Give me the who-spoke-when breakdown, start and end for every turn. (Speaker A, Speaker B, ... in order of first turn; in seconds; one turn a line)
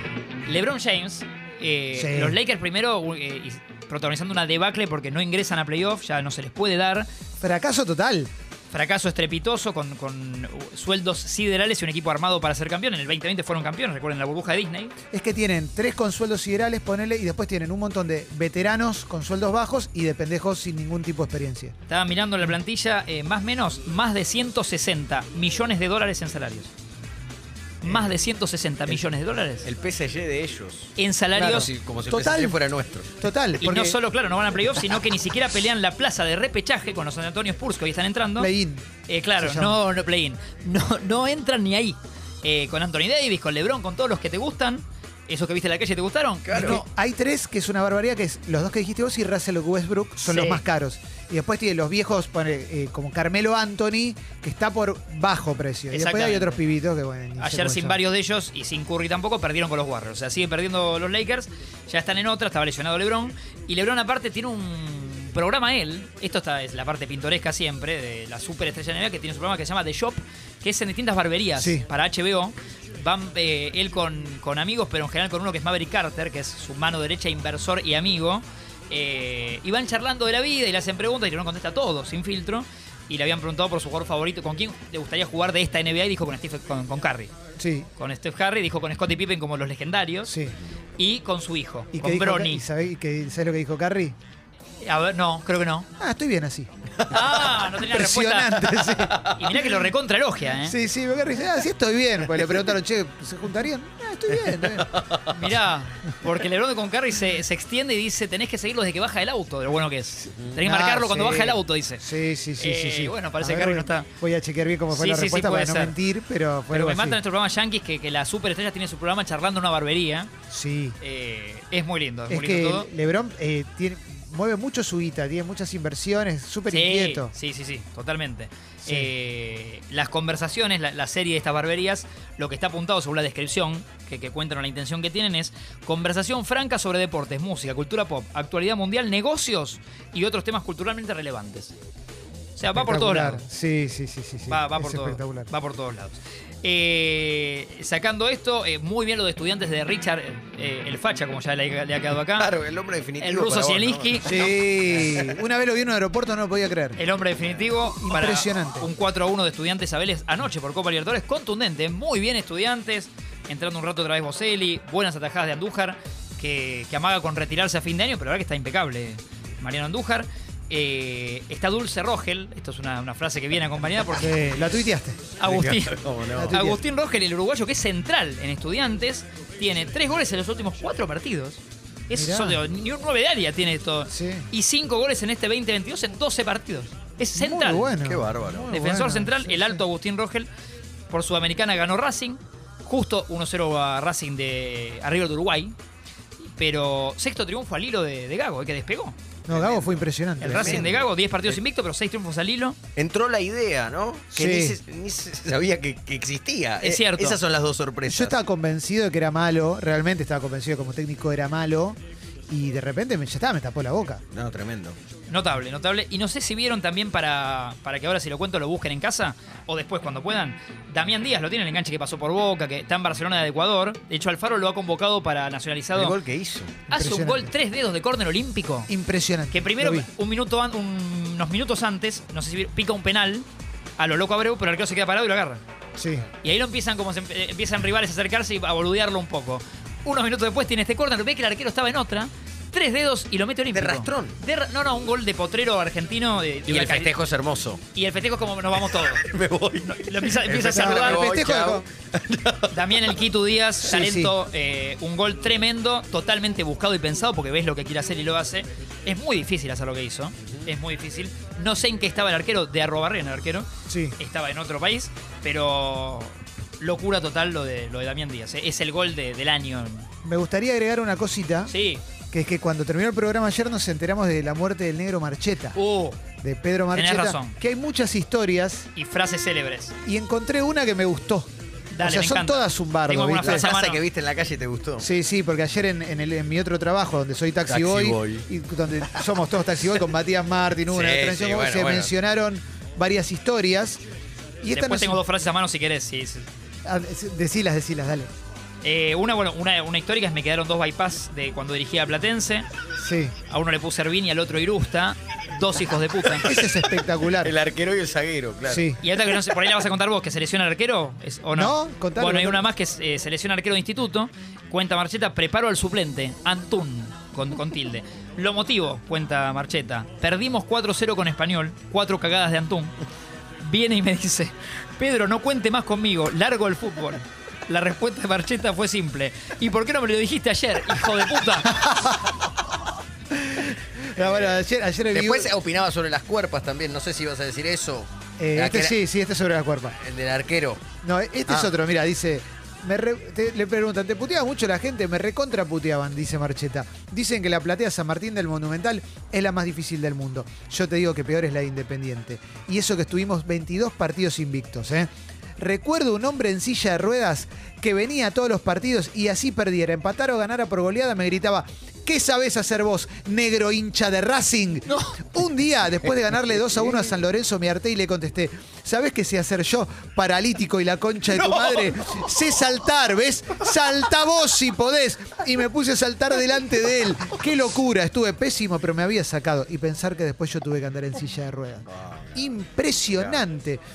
Speaker A: 0.5-7.1
Speaker B: 1.9-2.4
Speaker B: 7.4-8.3
Speaker A: 8.7-14.9
Speaker B: 15.1-21.7
Speaker A: 21.9-26.7
Speaker A: 27.8-29.7
Speaker B: 27.8-28.1
Speaker C: 29.6-33.1
Speaker A: 30.9-31.7
Speaker B: 31.4-32.6
Speaker B: 33.2-34.0
Speaker A: 33.6-38.5
Speaker B: 38.4-38.8
Speaker A: 39.1-46.8
Speaker B: 39.4-39.8
Speaker C: 46.5-46.8
Speaker B: 46.5-58.0
Speaker A: 50.2-50.6
Speaker A: 55.9-56.6
Speaker A: 57.4-87.3
Speaker B: 71.6-71.8
Speaker B: 87.6-87.9
Speaker A: 88.0-90.3
Speaker B: 90.3-90.5
Speaker A: 91.0-92.6
Speaker B: 91.9-94.1
Speaker A: 94.8-95.9
Speaker B: 96.0-96.7
Speaker A: 97.1-100.8
Speaker B: 97.8-99.7
Speaker B: 100.6-105.0
Speaker C: 104.9-105.2
Speaker A: 105.2-112.0
Speaker B: 110.6-117.2
Speaker A: 112.6-114.1
Speaker A: 114.9-115.9
Speaker A: 116.7-120.3
Speaker B: 120.5-121.0
Speaker A: 121.0-122.9
Speaker B: 122.3-127.3
Speaker A: 126.7-141.7
Speaker B: 128.8-129.1
Speaker A: 142.6-143.4
Speaker B: 142.7-145.5
Speaker A: 144.5-152.5
Speaker C: 152.4-155.3
Speaker A: 153.2-155.1
Speaker B: 154.2-157.0
Speaker A: 157.0-174.5
Speaker B: 158.0-158.9
Speaker B: 174.2-175.3
Speaker A: 175.4-188.0
Speaker C: 175.4-176.7
Speaker B: 176.3-176.8
Speaker B: 182.1-182.6
Speaker B: 184.1-184.5
Speaker B: 187.3-189.8
Speaker C: 188.0-188.7
Speaker A: 188.7-190.5
Speaker A: 191.1-195.7
Speaker A: 196.4-199.2
Speaker B: 199.5-200.9
Speaker C: 199.5-201.6
Speaker A: 200.4-202.8
Speaker C: 202.9-208.3
Speaker B: 204.3-204.8
Speaker A: 206.8-207.4
Speaker B: 208.1-214.2
Speaker C: 214.3-214.9
Speaker A: 215.3-226.1
Speaker C: 225.9-226.8
Speaker B: 226.9-227.5
Speaker A: 226.9-228.9
Speaker B: 228.9-230.1
Speaker A: 229.5-233.4
Speaker A: 234.0-235.6
Speaker B: 236.0-236.2
Speaker A: 236.4-247.1
Speaker C: 243.7-244.3
Speaker C: 246.7-247.8
Speaker A: 247.9-249.2
Speaker C: 248.9-253.1
Speaker A: 249.8-251.5
Speaker B: 250.6-251.8
Speaker A: 252.7-263.7
Speaker B: 253.8-254.3
Speaker B: 263.9-264.1
Speaker A: 264.2-270.1
Speaker B: 270.2-271.7
Speaker A: 271.7-272.0
Speaker B: 272.3-275.8
Speaker A: 275.7-276.2
Speaker B: 276.4-278.9
Speaker A: 276.9-277.6
Speaker A: 278.9-279.9
Speaker B: 280.0-281.5
Speaker A: 281.9-284.0
Speaker B: 282.0-283.7
Speaker C: 283.4-285.0
Speaker B: 285.0-294.0
Speaker C: 287.6-288.4
Speaker C: 290.9-292.1
Speaker B: 294.6-295.2
Speaker A: 294.7-296.4
Speaker B: 296.8-298.3
Speaker A: 298.8-302.6
Speaker B: 303.0-303.3
Speaker A: 303.5-306.4
Speaker B: 306.4-307.5
Speaker C: 306.4-306.8
Speaker C: 307.4-309.5
Speaker B: 308.7-309.0
Speaker A: 309.0-322.9
Speaker B: 311.5-312.6
Speaker A: 323.6-331.9
Speaker B: 333.3-335.5
Speaker C: 334.1-339.0
Speaker B: 338.4-339.9
Speaker C: 340.0-340.8
Speaker B: 341.0-383.8
Speaker C: 383.1-383.4